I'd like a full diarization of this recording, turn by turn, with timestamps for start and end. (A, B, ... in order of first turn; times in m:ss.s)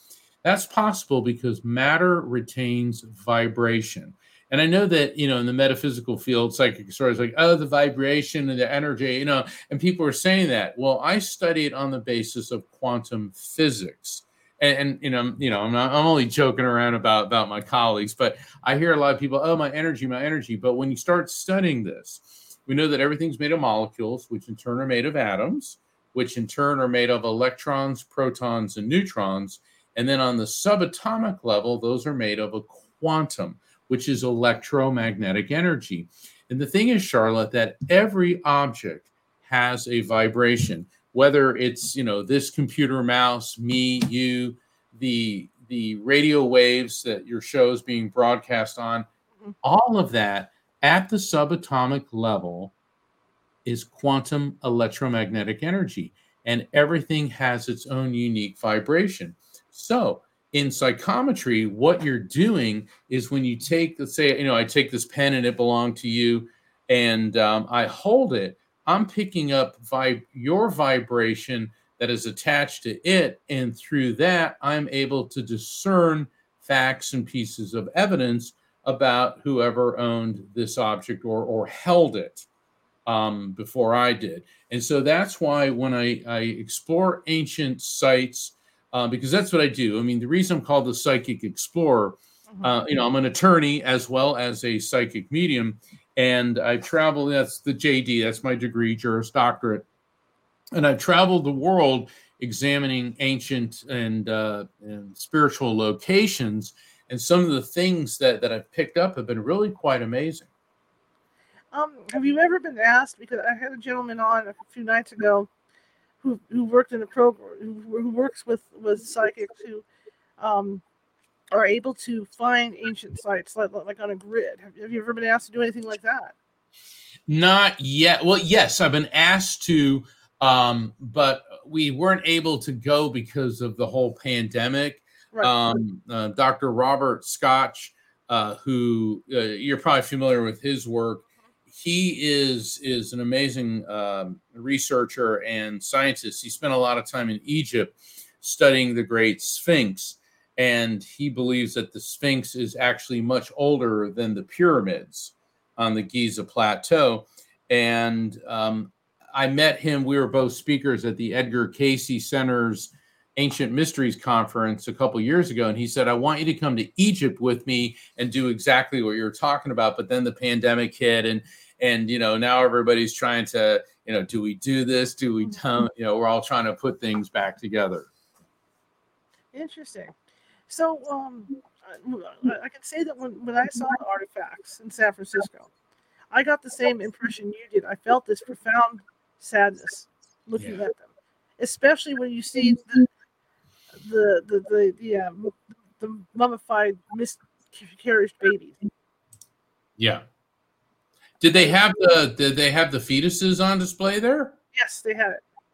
0:00.4-0:49.1 A
0:49.6-0:52.7 A
0:53.6-1:22.5 A
1:23.1-1:39.8 A
1:32.5-1:32.8 B
1:40.7-1:50.5 A
1:51.7-1:55.5 B
1:56.2-1:59.8 B
2:00.4-2:00.8 B
2:01.5-2:06.4 B
2:07.3-2:58.1 A
2:15.3-2:15.8 B
2:59.5-3:00.1 B
3:00.7-3:05.7 B
3:06.3-3:13.1 B
3:14.0-3:18.8 B
3:20.0-3:20.2 A
3:21.4-3:24.6 A
3:24.7-3:25.4 B